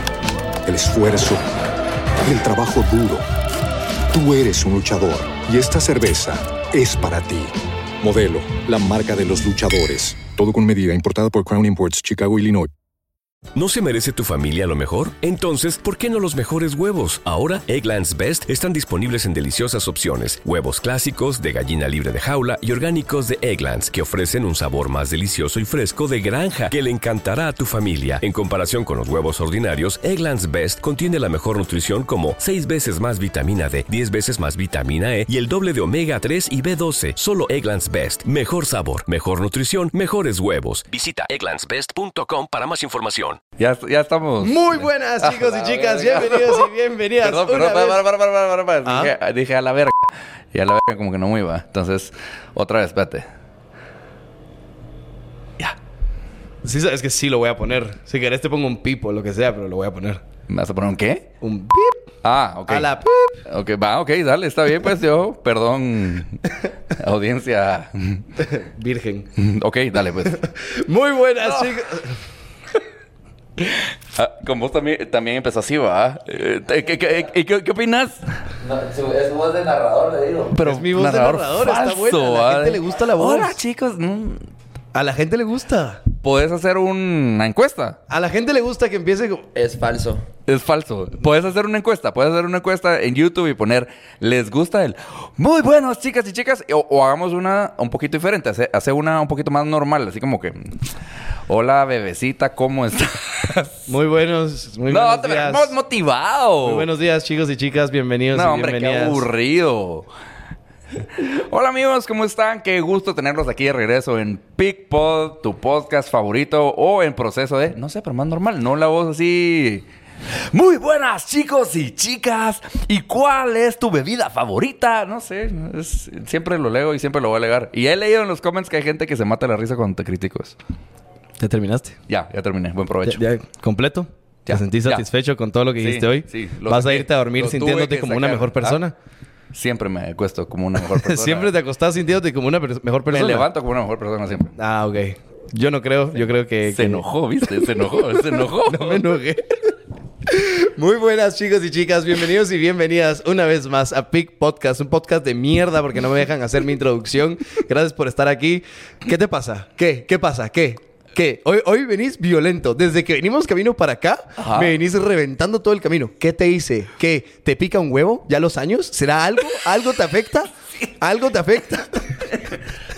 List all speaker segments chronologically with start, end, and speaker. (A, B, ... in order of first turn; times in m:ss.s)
0:00.6-0:01.5 A
0:02.2-0:03.2 A
0:04.1-0:12.7 A
0:13.5-0:43.4 B
0:43.6-0:46.7 C
0:44.4-0:48.0 D
0:47.2-0:53.2 C
0:48.8-0:49.1 D
0:56.6-1:00.2 D
1:00.5-1:01.3 C
1:01.4-1:02.0 D
1:02.2-1:06.4 C
1:02.7-1:03.4 D
1:06.9-1:08.2 C
1:08.4-1:09.3 D
1:09.4-1:10.4 C
1:10.2-1:12.2 D
1:13.6-1:18.2 C
1:18.6-1:20.6 E
1:20.5-1:24.4 C
1:20.6-1:23.6 D
1:24.9-1:26.0 D
1:26.2-1:28.0 C
1:28.1-1:29.5 D
1:29.5-1:30.2 E
1:30.5-1:40.8 C
1:41.5-1:43.9 C
1:43.9-1:45.7 D
1:44.9-1:46.9 C
1:46.6-1:49.2 D
1:48.3-1:50.1 C
1:51.2-2:10.6 C
2:11.4-2:12.0 D
2:12.1-2:13.2 C
2:13.0-2:18.9 D
2:14.4-2:15.0 C
2:15.8-2:18.8 C
2:19.5-2:21.5 C
2:20.8-2:23.5 D
2:23.1-2:24.5 C
2:24.6-2:29.7 D
2:26.6-2:29.0 C
2:30.2-2:52.2 D
2:44.4-2:44.7 C